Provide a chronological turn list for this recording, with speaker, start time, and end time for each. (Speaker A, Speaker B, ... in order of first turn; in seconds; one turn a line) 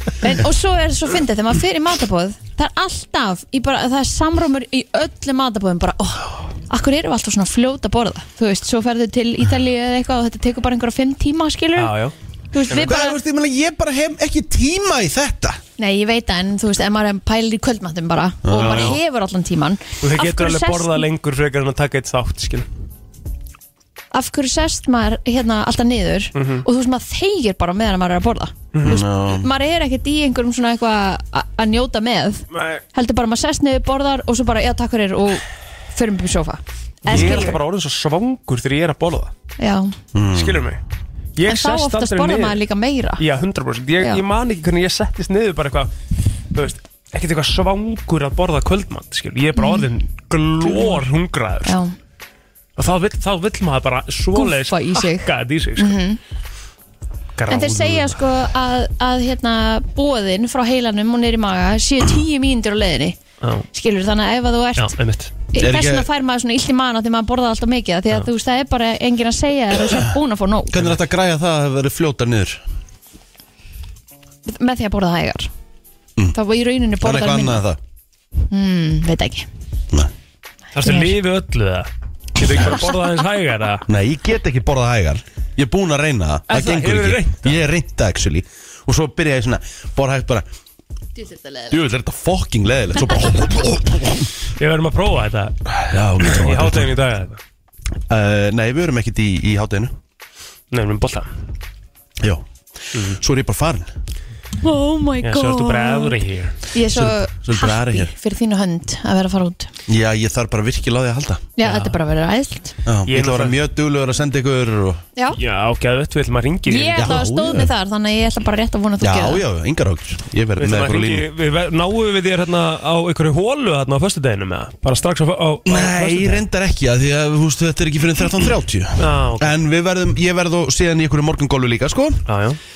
Speaker A: 0.2-11.9
Speaker B: 11.8-12.2
Speaker A: 12.5-13.2
Speaker C: 12.7-15.6
Speaker A: 15.8-21.1
Speaker C: 18.4-19.0
Speaker B: 18.5-19.0
Speaker B: 20.0-22.7
Speaker A: 24.1-35.4
Speaker B: 26.4-26.6
Speaker B: 28.7-29.0
Speaker C: 28.8-29.5
Speaker B: 32.5-32.8
Speaker A: 35.9-37.6
Speaker B: 37.0-39.3
Speaker C: 37.1-37.5
Speaker A: 39.6-39.9
Speaker C: 40.1-40.7
Speaker B: 40.3-40.8
Speaker B: 41.4-42.6
Speaker A: 41.5-43.2
Speaker B: 43.2-45.9
Speaker B: 46.5-51.8
Speaker A: 49.5-49.9
Speaker A: 50.6-51.0
Speaker A: 51.6-51.9
Speaker B: 52.8-56.0
Speaker A: 54.4-56.2
Speaker B: 57.4-58.2
Speaker A: 57.5-63.2
Speaker B: 63.4-63.7
Speaker A: 63.7-65.0
Speaker B: 64.8-65.3
Speaker A: 65.5-70.9
Speaker C: 65.6-66.1
Speaker C: 70.7-72.6
Speaker A: 74.5-75.5
Speaker A: 76.3-77.6
Speaker C: 77.0-77.8
Speaker A: 78.5-79.5
Speaker B: 80.7-83.9
Speaker A: 80.8-81.1
Speaker C: 83.9-90.5
Speaker B: 86.5-87.6
Speaker A: 91.2-91.7
Speaker C: 91.7-94.3
Speaker B: 94.6-95.5
Speaker C: 95.7-97.0
Speaker B: 96.2-97.4
Speaker C: 98.1-99.9
Speaker B: 100.7-101.3
Speaker C: 102.2-103.9
Speaker A: 104.6-109.7
Speaker B: 105.2-106.6
Speaker C: 106.9-108.1
Speaker C: 109.9-111.4
Speaker A: 111.6-112.8
Speaker B: 111.6-112.0
Speaker C: 112.9-115.0
Speaker B: 113.1-113.6
Speaker B: 115.3-117.1
Speaker A: 116.7-119.4
Speaker C: 117.0-117.7
Speaker C: 119.0-121.3
Speaker B: 120.6-126.4
Speaker C: 125.7-132.2
Speaker B: 129.0-129.6
Speaker B: 132.3-132.6